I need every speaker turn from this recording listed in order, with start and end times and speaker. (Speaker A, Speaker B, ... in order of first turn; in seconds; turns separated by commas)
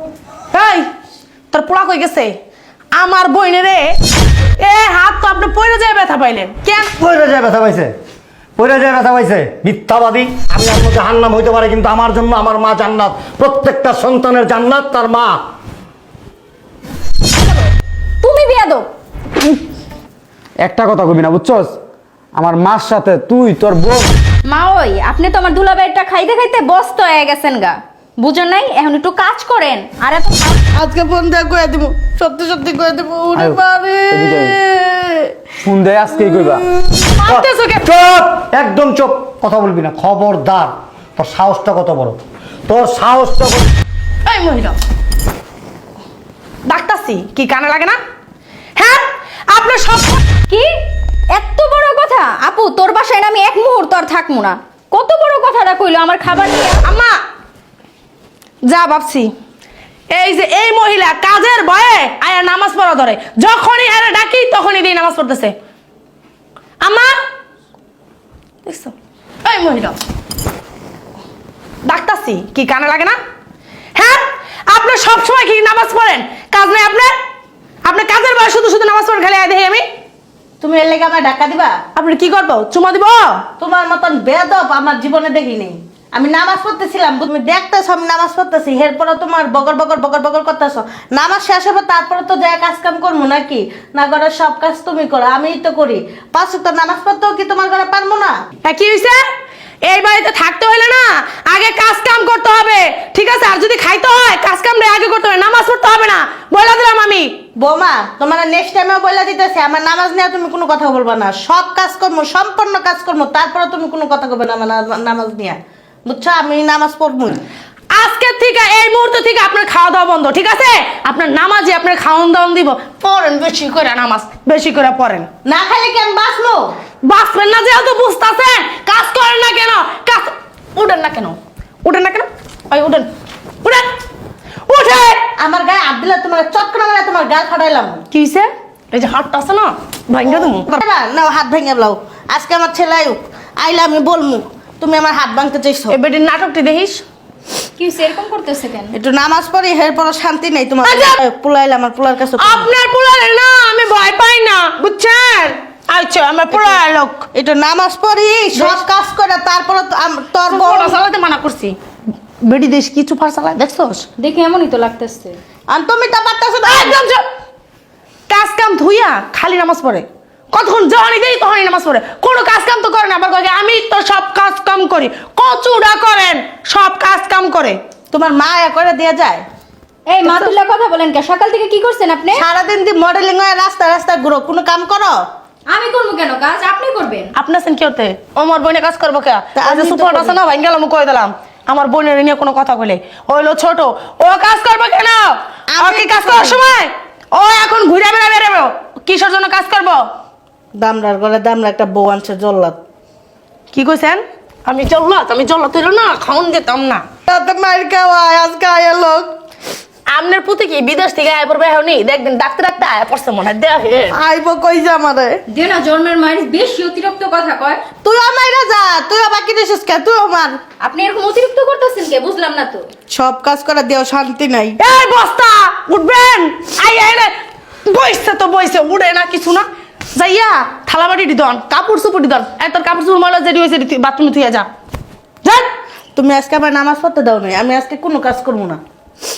Speaker A: 0.5-0.9, Speaker A: 1.5-2.4, Speaker A: 2.9-4.0, Speaker A: 4.6-6.9, Speaker B: 6.9-7.9, Speaker B: 8.6-15.4, Speaker C: 17.3-18.9, Speaker D: 20.6-21.7, Speaker D: 22.4-24.1, Speaker C: 24.5-30.6, Speaker E: 30.8-31.3, Speaker B: 30.9-35.2, Speaker D: 34.1-34.5, Speaker D: 35.6-36.7, Speaker B: 36.8-43.7, Speaker A: 37.1-37.8, Speaker A: 44.2-44.8, Speaker A: 46.7-48.0, Speaker A: 48.8-50.2, Speaker C: 51.3-56.8, Speaker A: 56.8-57.2, Speaker A: 58.7-59.3, Speaker A: 60.1-65.5, Speaker A: 66.8-67.2, Speaker A: 68.6-70.0, Speaker A: 71.8-73.2, Speaker A: 74.0-77.1, Speaker A: 77.8-79.8, Speaker E: 80.6-81.8, Speaker A: 81.9-83.4, Speaker E: 83.6-98.4, Speaker A: 98.6-99.2, Speaker A: 99.8-107.3, Speaker E: 107.6-117.4, Speaker A: 117.9-125.3, Speaker E: 125.4-126.7, Speaker A: 127.0-133.1, Speaker A: 133.6-133.9, Speaker A: 134.7-135.2, Speaker E: 135.4-138.0, Speaker A: 138.1-140.7, Speaker E: 140.7-146.0, Speaker A: 145.9-147.0, Speaker C: 147.8-148.9, Speaker E: 148.9-152.6, Speaker A: 150.8-151.2, Speaker A: 152.3-157.2, Speaker E: 157.3-160.9, Speaker A: 158.5-158.8, Speaker A: 160.5-161.8, Speaker A: 162.4-164.1, Speaker C: 164.2-165.4, Speaker E: 165.7-167.0, Speaker A: 166.6-167.3, Speaker A: 168.3-177.8, Speaker E: 178.1-179.4, Speaker C: 180.1-182.4, Speaker A: 180.2-180.5, Speaker E: 182.4-185.2, Speaker C: 185.7-187.3, Speaker A: 187.3-200.1, Speaker E: 189.6-190.3, Speaker E: 195.8-196.6, Speaker E: 200.7-202.8, Speaker A: 203.7-207.0, Speaker E: 207.3-209.3, Speaker B: 207.3-209.1, Speaker A: 210.1-214.2, Speaker E: 214.1-215.4, Speaker B: 214.4-215.3, Speaker C: 215.5-217.8, Speaker E: 218.0-220.6, Speaker C: 220.8-222.9, Speaker E: 223.1-224.8, Speaker A: 224.8-227.3, Speaker A: 227.8-234.7, Speaker A: 235.4-235.7, Speaker E: 236.1-238.8